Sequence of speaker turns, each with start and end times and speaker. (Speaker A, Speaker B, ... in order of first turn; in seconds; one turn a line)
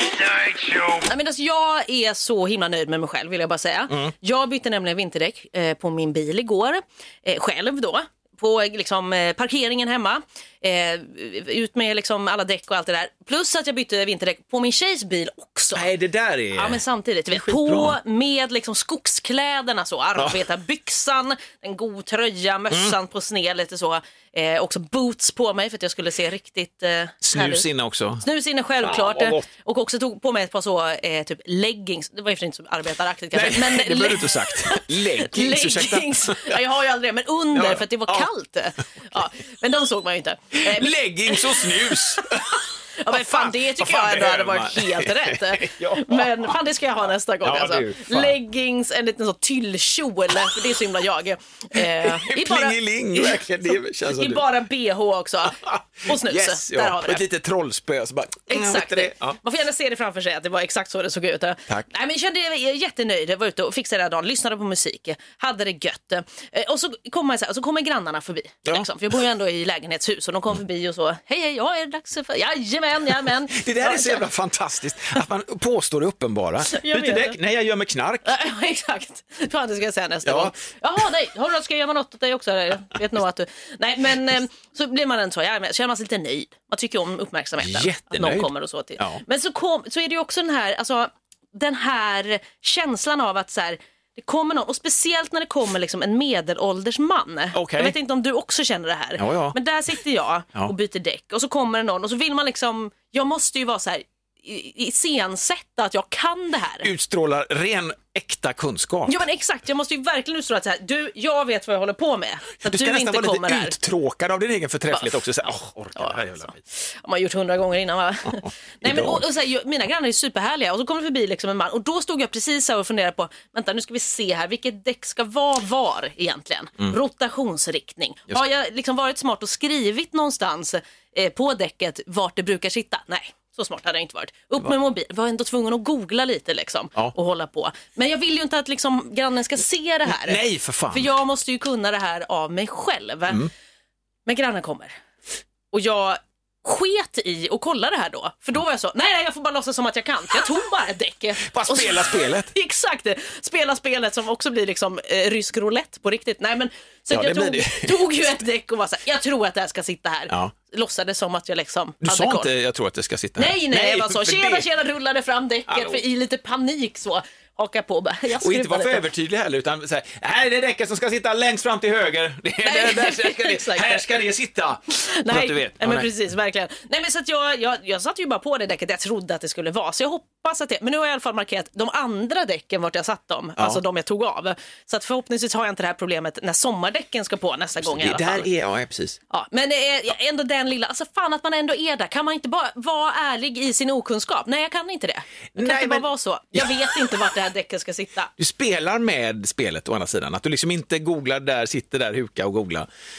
Speaker A: 1.0-15.9
Speaker B: 15.7-18.0
Speaker A: 16.5-27.6
Speaker B: 20.1-20.4
Speaker B: 22.7-23.0
Speaker B: 27.2-28.2
Speaker A: 28.2-42.0
Speaker B: 28.8-29.4
Speaker B: 33.3-36.6
Speaker B: 37.5-38.3
Speaker B: 40.5-46.5
Speaker A: 43.0-53.4
Speaker B: 47.4-48.4
Speaker B: 51.8-54.5
Speaker A: 54.1-57.2
Speaker B: 55.5-59.4
Speaker A: 58.5-74.2
Speaker B: 73.5-78.4
Speaker A: 76.7-77.4
Speaker A: 78.2-106.9
Speaker B: 80.2-80.5
Speaker B: 87.6-89.2
Speaker B: 97.5-98.0
Speaker B: 99.2-99.6
Speaker B: 106.8-109.2
Speaker A: 109.1-113.8
Speaker B: 112.6-116.6
Speaker A: 114.9-115.2
Speaker A: 116.0-143.4
Speaker B: 118.8-119.2
Speaker B: 140.1-141.1
Speaker A: 144.2-144.9
Speaker A: 145.7-162.5
Speaker B: 151.4-152.5
Speaker B: 157.1-158.2
Speaker B: 162.0-164.7
Speaker A: 163.3-169.1
Speaker B: 165.7-166.0
Speaker B: 168.4-176.1
Speaker A: 172.6-174.1
Speaker A: 174.9-188.5
Speaker B: 183.6-183.8
Speaker B: 187.8-189.2
Speaker A: 189.3-198.3
Speaker B: 195.5-197.2
Speaker B: 198.4-202.9